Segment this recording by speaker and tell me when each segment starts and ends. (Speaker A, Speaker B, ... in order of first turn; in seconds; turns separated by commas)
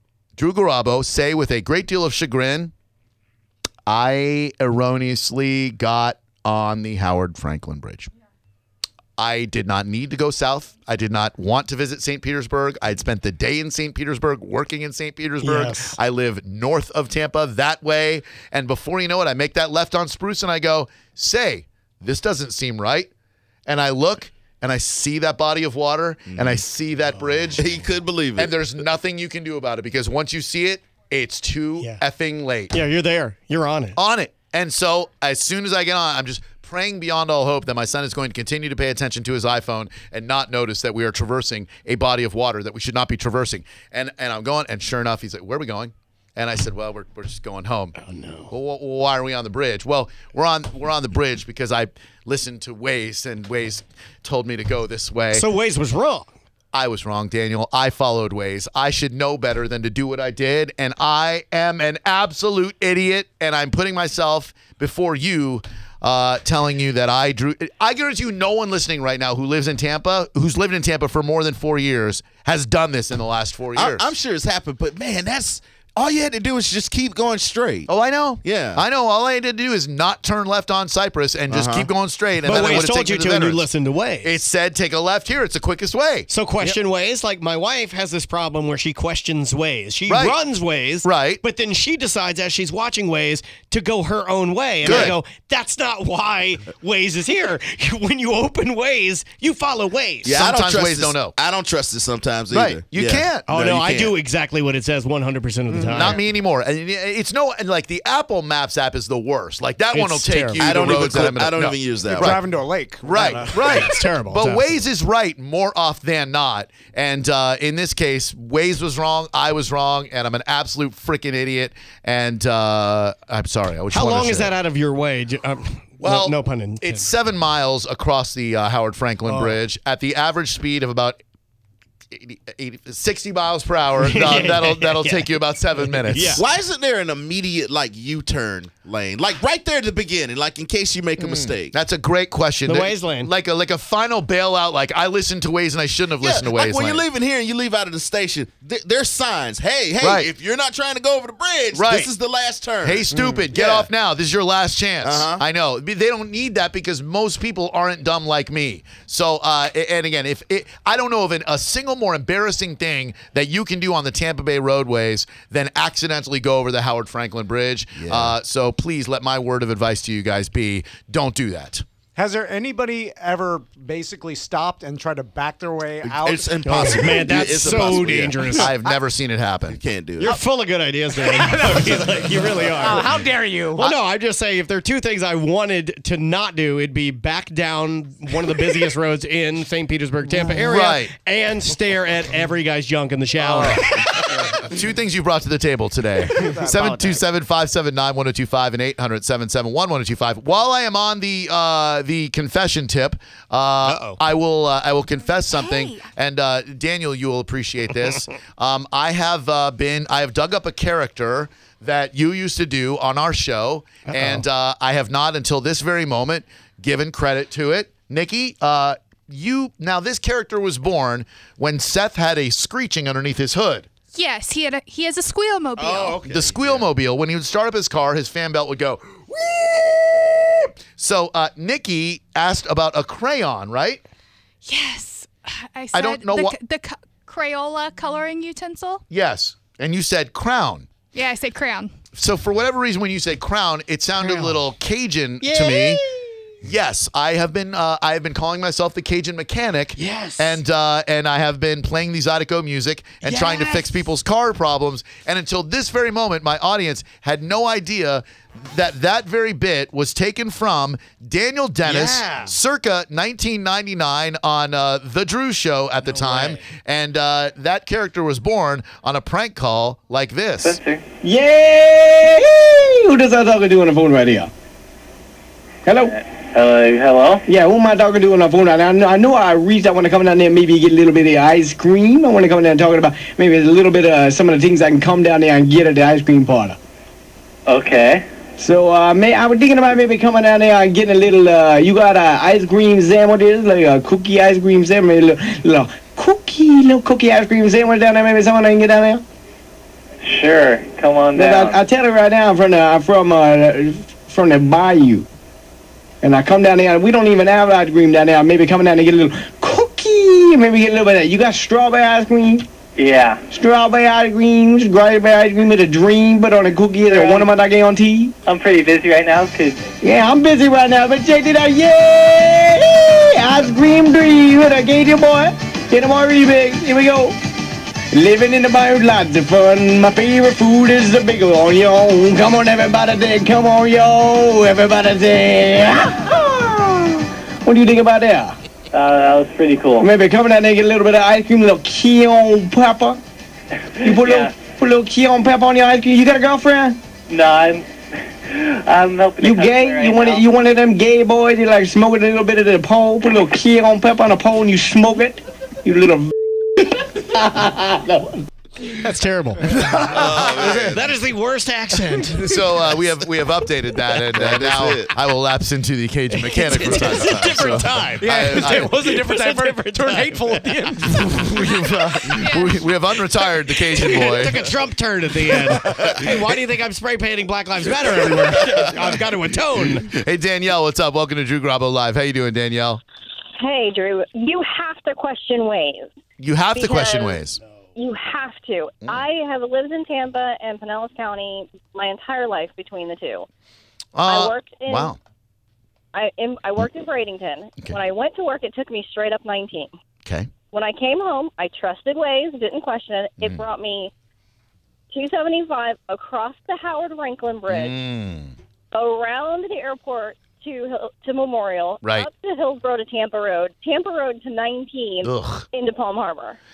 Speaker A: 0.4-2.7, Speaker A: 3.9-8.1, Speaker A: 9.2-23.1, Speaker B: 15.4-16.0, Speaker A: 23.7-32.8, Speaker C: 26.3-26.6, Speaker C: 27.6-28.6, Speaker B: 32.7-34.0, Speaker A: 34.0-48.0, Speaker B: 48.0-48.5, Speaker A: 48.5-55.5, Speaker B: 55.3-56.3, Speaker A: 56.7-74.1, Speaker C: 73.8-77.9, Speaker A: 77.9-83.7, Speaker C: 78.4-78.8, Speaker C: 81.5-81.9, Speaker B: 82.4-84.3, Speaker A: 84.2-86.7, Speaker B: 86.3-100.3, Speaker A: 90.1-90.4, Speaker A: 91.0-91.4, Speaker A: 94.8-95.2, Speaker C: 100.2-104.2, Speaker A: 100.3-101.4, Speaker A: 102.5-103.5, Speaker B: 103.5-106.2, Speaker D: 105.7-106.2, Speaker A: 105.9-112.4, Speaker B: 109.9-110.7, Speaker C: 110.6-112.4, Speaker D: 112.1-113.8, Speaker A: 113.0-124.6, Speaker B: 113.2-114.8, Speaker B: 123.9-127.1, Speaker A: 126.0-131.2, Speaker B: 129.3-129.6, Speaker A: 132.1-136.4, Speaker B: 134.0-136.4, Speaker C: 136.4-141.8, Speaker A: 141.2-147.1, Speaker B: 142.6-143.3, Speaker C: 146.2-153.9, Speaker A: 150.0-150.3, Speaker A: 151.7-152.1, Speaker A: 152.8-171.8, Speaker D: 153.2-153.4, Speaker C: 155.0-155.4, Speaker C: 168.0-168.3, Speaker D: 172.2-177.9, Speaker C: 176.0-178.6, Speaker B: 176.6-178.8, Speaker A: 178.5-179.8, Speaker C: 179.7-180.3, Speaker B: 180.2-183.2, Speaker D: 181.1-183.9, Speaker B: 183.8-194.2, Speaker A: 190.6-191.1, Speaker A: 193.4-193.9, Speaker A: 194.6-223.9, Speaker D: 196.4-197.2, Speaker B: 203.8-204.2, Speaker B: 214.1-214.4, Speaker E: 224.1-226.2, Speaker C: 225.8-226.9, Speaker A: 226.2-234.0, Speaker E: 234.7-239.0, Speaker A: 235.9-236.6, Speaker A: 239.1-240.9, Speaker E: 241.1-241.9, Speaker A: 242.2-246.0, Speaker B: 244.2-244.6, Speaker B: 245.4-246.4, Speaker A: 246.6-270.8, Speaker B: 250.0-250.6, Speaker B: 253.2-253.9, Speaker B: 261.9-262.5, Speaker B: 266.1-266.6, Speaker F: 270.6-271.0, Speaker G: 271.2-274.5, Speaker G: 275.9-276.1, Speaker F: 276.0-277.4, Speaker G: 277.5-286.8, Speaker F: 287.7-288.2, Speaker G: 288.6-299.2, Speaker F: 300.2-301.8, Speaker G: 301.3-305.3, Speaker G: 306.2-312.6, Speaker F: 313.0-313.4, Speaker G: 313.5-318.3, Speaker F: 317.1-317.5, Speaker F: 318.5-319.9, Speaker G: 320.0-327.4, Speaker G: 328.1-338.6, Speaker F: 338.9-340.1, Speaker G: 340.0-343.2, Speaker G: 344.0-347.0, Speaker F: 344.0-344.6, Speaker F: 347.3-347.9, Speaker F: 348.4-350.5, Speaker G: 349.4-358.5, Speaker B: 358.9-362.6, Speaker A: 359.6-361.0, Speaker C: 360.1-361.1, Speaker A: 362.3-368.9, Speaker C: 364.3-365.1, Speaker B: 366.3-371.5, Speaker D: 368.2-371.5, Speaker A: 371.2-374.7, Speaker E: 372.4-372.8, Speaker B: 373.3-380.1, Speaker A: 380.1-383.0, Speaker H: 383.6-386.1, Speaker A: 386.4-387.6, Speaker H: 386.7-387.4, Speaker H: 387.9-393.5, Speaker A: 394.1-395.2, Speaker H: 394.3-395.1, Speaker H: 396.1-399.9, Speaker H: 400.7-404.1, Speaker H: 405.1-408.0, Speaker A: 407.7-408.5, Speaker H: 408.9-416.6, Speaker A: 412.0-412.3, Speaker A: 415.2-415.7